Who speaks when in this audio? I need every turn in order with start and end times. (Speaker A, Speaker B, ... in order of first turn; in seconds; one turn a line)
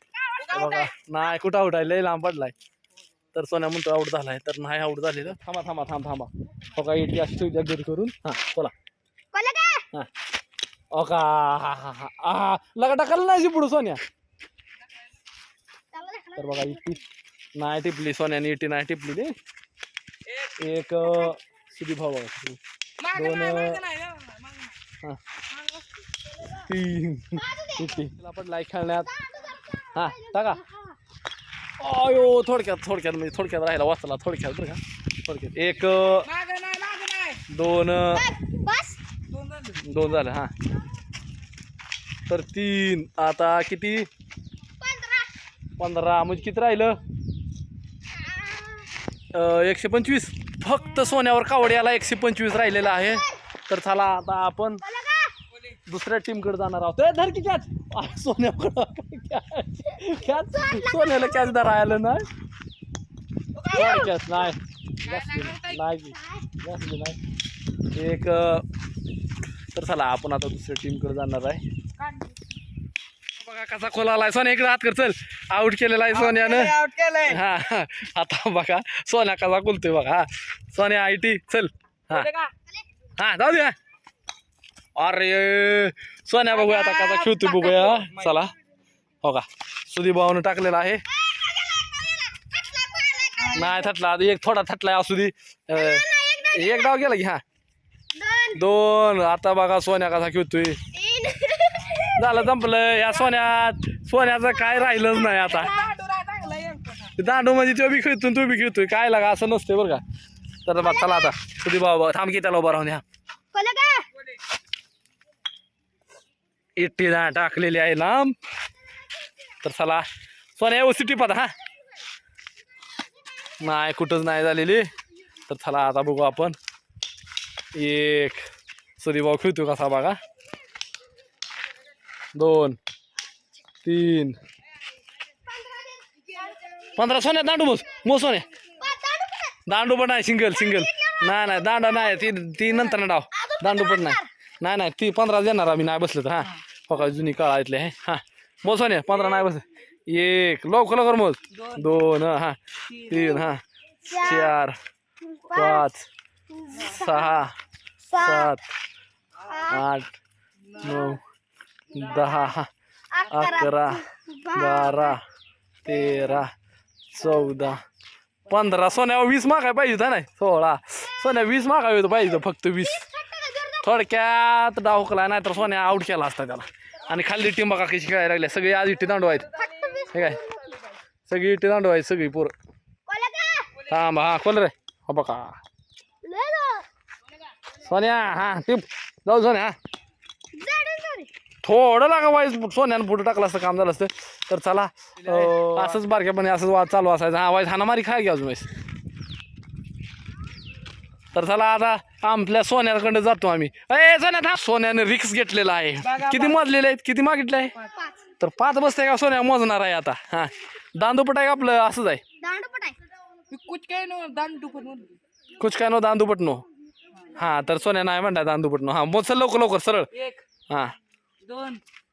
Speaker A: 0.4-0.9
Speaker B: 0.5-2.5
Speaker B: 3.3-8.7
Speaker C: 9.3-9.9
Speaker B: 10.9-14.0
Speaker C: 15.9-17.0
Speaker B: 16.4-17.0
Speaker B: 17.6-19.3
Speaker B: 20.6-23.9
Speaker A: 23.0-24.8
Speaker B: 26.5-29.1
Speaker C: 27.4-28.1
Speaker C: 29.1-31.0
Speaker B: 29.9-30.6
Speaker B: 31.8-36.3
Speaker A: 36.3-37.4
Speaker B: 37.5-38.3
Speaker C: 38.1-39.0
Speaker A: 39.3-39.8
Speaker B: 39.8-40.5
Speaker B: 42.3-44.1
Speaker C: 44.8-45.3
Speaker B: 45.8-47.0
Speaker C: 48.1-48.9
Speaker B: 49.3-54.8
Speaker C: 52.8-53.4
Speaker C: 54.8-55.3
Speaker B: 55.9-62.3
Speaker C: 60.0-61.7
Speaker C: 63.6-64.5
Speaker B: 63.7-67.2
Speaker A: 65.0-65.8
Speaker C: 66.1-66.5
Speaker B: 67.9-68.7
Speaker B: 69.7-71.6
Speaker B: 73.4-82.3
Speaker A: 76.2-77.4
Speaker A: 82.1-82.5
Speaker B: 83.2-83.8
Speaker B: 85.0-88.5
Speaker A: 86.5-88.4
Speaker B: 89.2-91.0
Speaker C: 91.1-93.9
Speaker B: 93.5-97.4
Speaker C: 95.7-97.1
Speaker C: 98.1-98.7
Speaker B: 98.5-100.8
Speaker C: 100.9-102.5
Speaker B: 102.1-105.8
Speaker C: 104.8-105.9
Speaker A: 105.7-107.2
Speaker B: 107.2-110.0
Speaker B: 110.7-113.0
Speaker C: 110.8-111.3
Speaker C: 113.5-114.1
Speaker B: 116.8-118.3
Speaker B: 119.6-120.1
Speaker B: 120.6-121.5
Speaker B: 123.6-124.9
Speaker B: 125.5-126.6
Speaker B: 127.8-128.5
Speaker B: 129.0-130.2
Speaker B: 132.3-132.8
Speaker B: 133.8-134.4
Speaker C: 135.5-136.4
Speaker B: 137.0-138.5
Speaker C: 138.8-139.6
Speaker B: 139.7-153.6
Speaker C: 140.5-142.3
Speaker C: 143.3-144.3
Speaker A: 152.9-153.4
Speaker C: 154.1-154.6
Speaker B: 154.1-154.8
Speaker C: 155.2-155.9
Speaker B: 155.5-156.1
Speaker C: 156.5-157.3
Speaker B: 156.8-157.5
Speaker C: 158.1-158.6
Speaker B: 158.2-158.6
Speaker C: 159.4-159.8
Speaker B: 159.7-160.2
Speaker A: 160.7-161.1
Speaker B: 160.8-161.2
Speaker B: 161.9-162.7
Speaker A: 161.9-162.4
Speaker C: 163.1-165.2
Speaker B: 163.3-165.2
Speaker B: 165.8-166.5
Speaker C: 165.9-166.4
Speaker B: 167.1-167.8
Speaker B: 168.5-173.0
Speaker C: 172.8-174.1
Speaker B: 173.8-179.6
Speaker C: 179.5-180.8
Speaker B: 180.1-180.4
Speaker B: 181.3-182.5
Speaker C: 183.1-183.8
Speaker B: 183.8-185.6
Speaker C: 186.2-186.9
Speaker B: 187.8-189.8
Speaker C: 190.5-191.3
Speaker B: 191.6-198.7
Speaker A: 195.2-196.0
Speaker B: 201.3-207.7
Speaker A: 206.0-206.6
Speaker C: 207.9-208.3
Speaker B: 208.4-212.2
Speaker C: 212.4-213.0
Speaker A: 213.5-215.2
Speaker B: 215.6-216.7
Speaker B: 217.3-220.1
Speaker A: 220.2-220.4
Speaker B: 220.7-220.9
Speaker A: 221.4-221.8